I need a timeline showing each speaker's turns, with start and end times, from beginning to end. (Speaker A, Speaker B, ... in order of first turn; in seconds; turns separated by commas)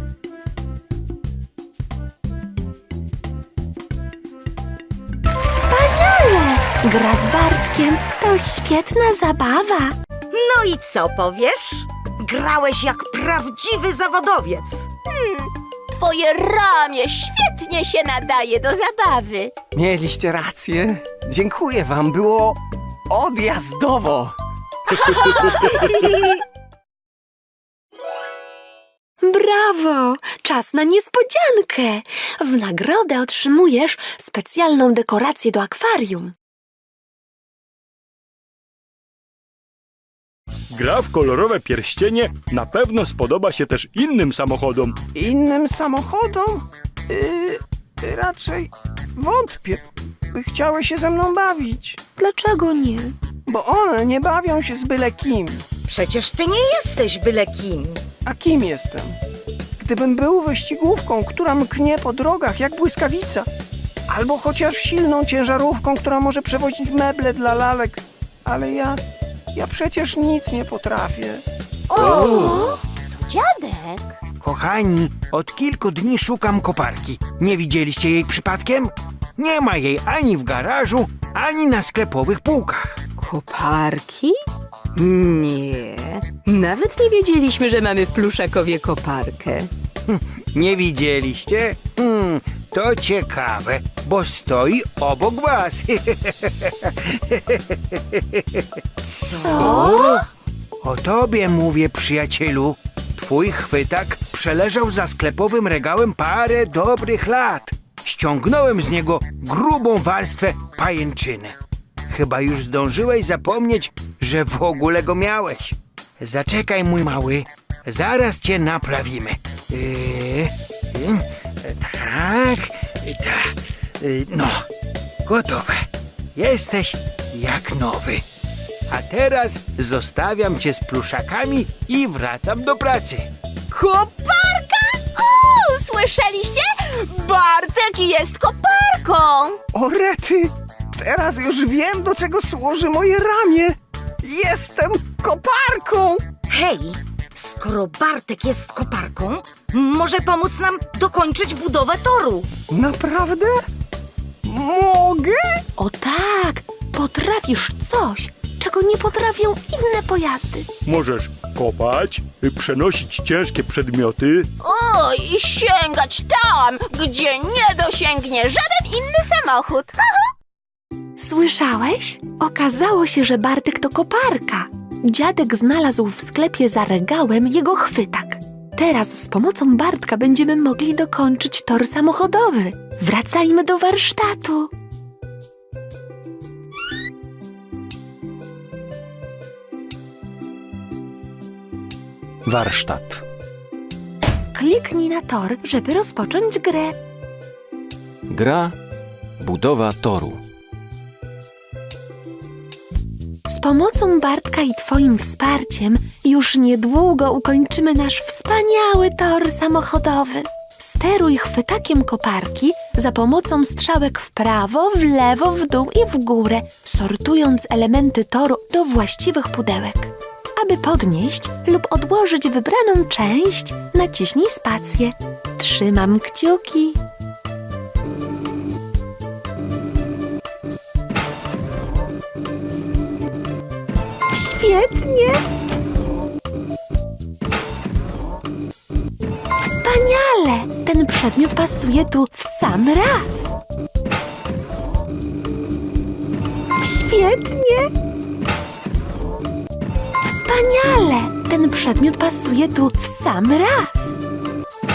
Speaker A: 5.3-10.0, Speaker B: 10.3-14.9, Speaker C: 15.1-19.5, Speaker D: 19.8-24.4, Speaker C: 24.9-25.7, Speaker B: 25.6-26.4, Speaker A: 29.2-36.4, Speaker E: 40.7-45.0, Speaker D: 45.1-52.0, Speaker A: 52.2-53.2, Speaker D: 53.5-55.6, Speaker B: 55.9-58.0, Speaker D: 58.2-59.2, Speaker D: 59.8-63.5, Speaker D: 64.1-69.0, Speaker D: 69.5-71.4, Speaker C: 71.9-74.2, Speaker F: 72.0-72.7, Speaker F: 74.4-83.0, Speaker G: 83.2-84.4, Speaker G: 85.0-89.7, Speaker F: 90.1-98.7, Speaker A: 99.1-100.2, Speaker F: 99.4-100.2, Speaker B: 99.4-100.0, Speaker F: 100.8-111.6, Speaker F: 112.1-124.7, Speaker F: 125.2-128.2, Speaker F: 128.9-133.3, Speaker C: 133.7-139.6, Speaker D: 139.7-146.2, Speaker B: 146.5-152.5, Speaker D: 152.7-153.6, Speaker D: 154.4-155.6, Speaker A: 155.8-160.7, Speaker E: 160.8-164.5, Speaker C: 164.6-170.2, Speaker A: 171.2-184.7, Speaker H: 192.4-193.2, Speaker A: 194.5-197.0, Speaker H: 198.3-198.8, Speaker H: 199.4-200.4, Speaker A: 203.5-227.0, Speaker A: 234.3-235.5, Speaker A: 239.6-243.6, Speaker A: 246.8-247.9, Speaker A: 250.3-254.2